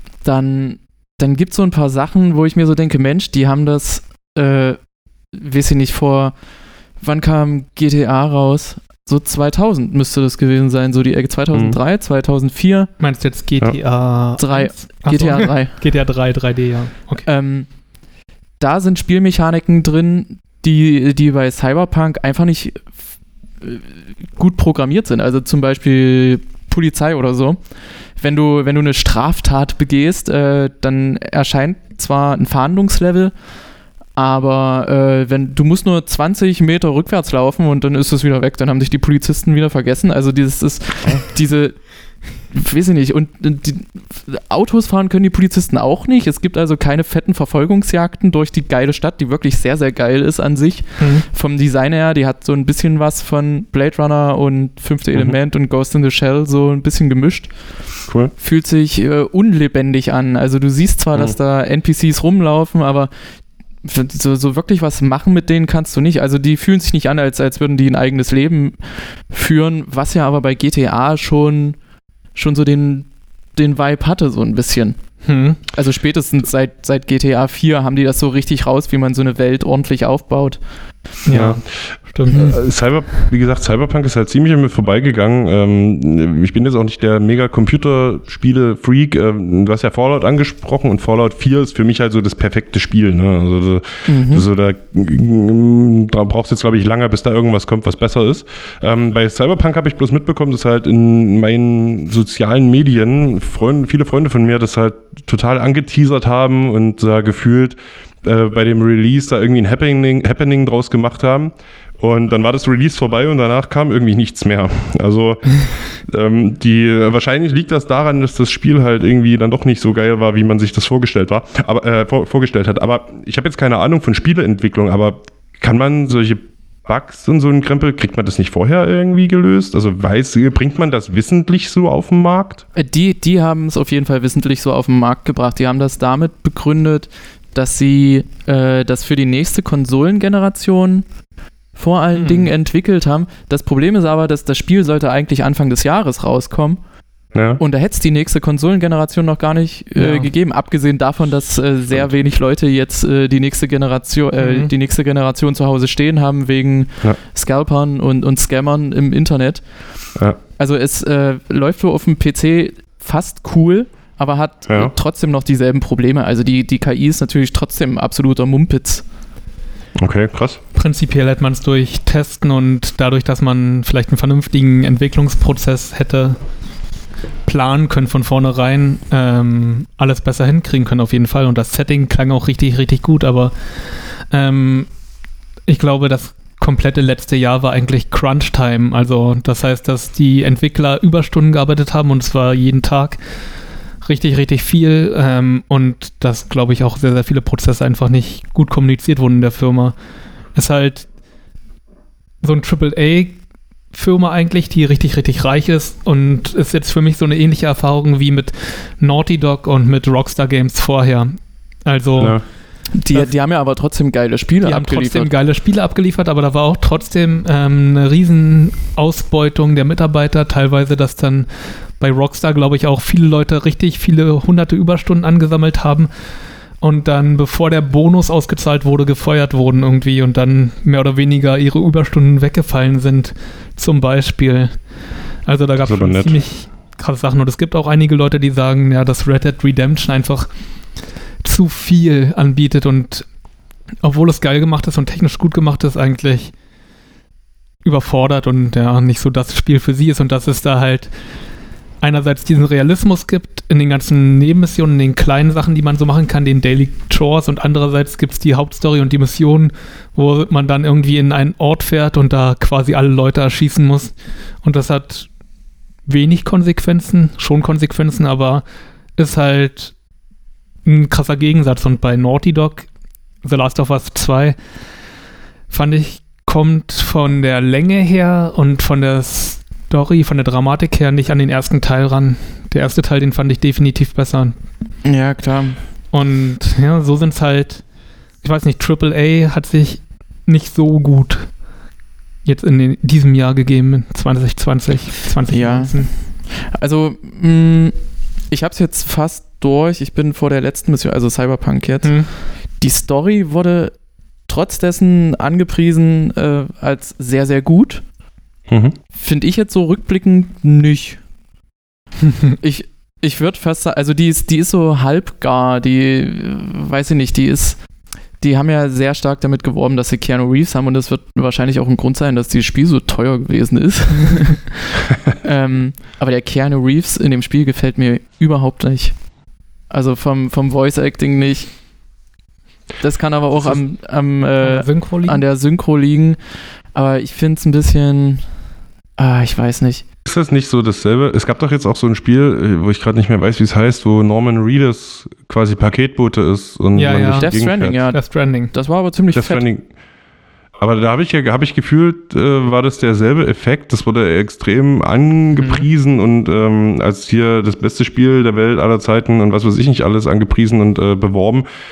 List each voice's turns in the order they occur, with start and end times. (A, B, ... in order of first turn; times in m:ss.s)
0:00.2-0:04.8 A
0:05.3-0:06.4 A
0:07.0-0:12.9 A
0:11.5-0:11.8 B
0:13.0-0:17.3 C
0:14.4-0:15.8 A
0:17.2-0:17.7 A
0:18.6-0:22.9 A
0:23.6-0:33.4 A
0:34.1-1:03.1 A
0:51.0-0:51.3 C
0:55.1-0:55.4 B
0:58.1-0:58.3 B
1:03.8-1:11.8 A
1:12.4-1:20.6 A
1:15.2-1:15.6 C
1:21.3-1:22.6 C
1:21.3-2:12.6 B
1:34.1-1:34.5 A
2:12.8-2:21.1 A
2:21.7-2:26.8 A
2:22.2-2:22.5 C
2:27.3-2:27.6 B
2:27.6-2:39.7 A
2:30.0-2:30.3 C
2:34.4-2:34.7 C
2:40.6-2:49.0 A
2:44.7-2:44.9 B
2:50.0-2:50.6 B
2:50.8-2:56.5 C
2:57.5-3:04.9 C
3:05.7-3:13.2 C
3:14.0-3:20.0 C
3:20.5-3:21.1 C
3:22.4-3:23.4 C
3:23.9-3:33.3 C
3:32.2-3:32.5 B
3:32.9-3:35.3 A
3:34.6-4:00.6 C
3:55.8-3:56.4 B
4:01.4-4:03.3 C
4:04.0-4:06.5 C
4:07.8-4:11.1 C
4:12.0-4:25.3 C
4:26.1-4:28.6 C
4:29.2-4:30.0 C
4:30.8-4:32.9 C
4:33.4-4:34.6 C
4:35.7-4:44.6 C
4:45.0-4:45.8 A
4:46.1-4:47.9 C
4:48.4-4:51.6 C
4:52.4-4:56.1 C
4:55.5-4:58.0 A
4:58.5-5:04.0 A
5:02.0-5:02.3 C
5:04.5-5:08.0 A
5:08.7-5:09.0 B
5:09.1-5:11.2 A
5:12.6-5:17.8 A
5:18.4-5:29.2 A
5:29.9-5:31.8 A
5:33.0-5:36.4 A
5:33.6-5:33.8 B
5:34.6-5:35.4 C
5:36.9-5:38.5 A
5:39.2-5:40.0 A
5:40.2-5:48.0 B
5:47.0-5:48.7 C
5:47.3-5:49.7 A
5:49.3-5:49.9 B
5:50.8-6:01.7 B
5:55.6-5:55.9 C